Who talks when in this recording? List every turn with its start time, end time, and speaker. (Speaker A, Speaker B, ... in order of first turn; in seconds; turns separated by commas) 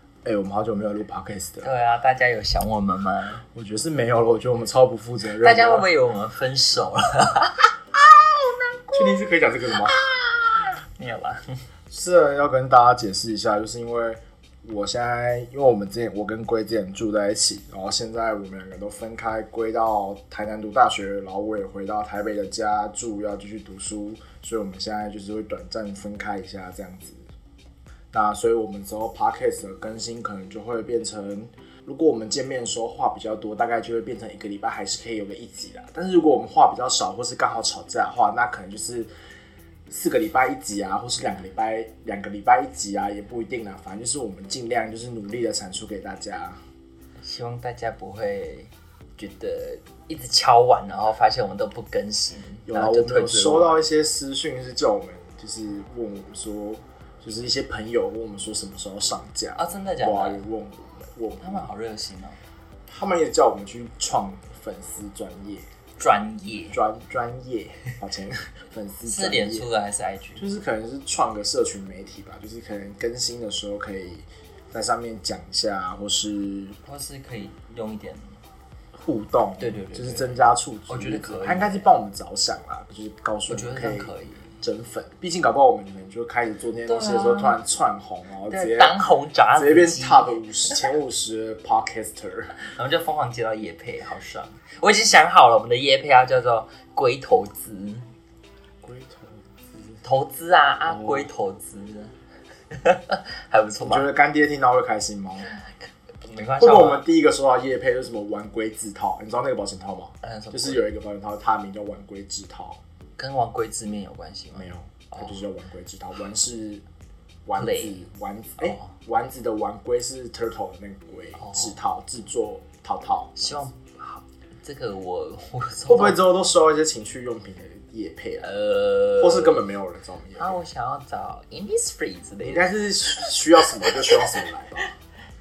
Speaker A: 0.2-1.7, Speaker B: 1.6-3.4, Speaker A: 3.5-5.9, Speaker B: 5.4-9.0, Speaker A: 8.9-10.0, Speaker B: 9.7-11.6, Speaker A: 11.9-27.2, Speaker A: 28.1-39.1, Speaker A: 39.9-46.6, Speaker B: 47.2-53.8, Speaker A: 52.7-61.7, Speaker B: 59.5-60.4, Speaker B: 61.4-62.4, Speaker A: 62.9-65.7, Speaker B: 66.0-66.8, Speaker A: 66.7-69.7, Speaker B: 69.0-70.4, Speaker A: 70.4-76.8, Speaker B: 76.8-78.4, Speaker A: 78.9-89.0, Speaker B: 79.6-80.4, Speaker B: 80.9-81.8, Speaker B: 83.5-84.5, Speaker B: 86.8-87.5, Speaker B: 88.5-90.8, Speaker A: 89.5-92.5, Speaker B: 92.6-98.0, Speaker A: 98.8-99.9, Speaker B: 100.0-102.1, Speaker A: 100.8-101.3, Speaker B: 102.7-104.1, Speaker A: 103.8-105.5, Speaker B: 105.5-107.0, Speaker A: 106.6-112.8, Speaker B: 110.2-110.8, Speaker B: 113.2-115.3, Speaker A: 114.5-116.8, Speaker A: 117.5-123.6, Speaker B: 117.5-118.0, Speaker B: 118.6-118.9, Speaker B: 121.4-121.7, Speaker B: 123.3-126.2, Speaker A: 125.9-128.5, Speaker B: 128.4-129.6, Speaker A: 129.2-130.5, Speaker B: 130.4-134.2, Speaker A: 132.4-134.9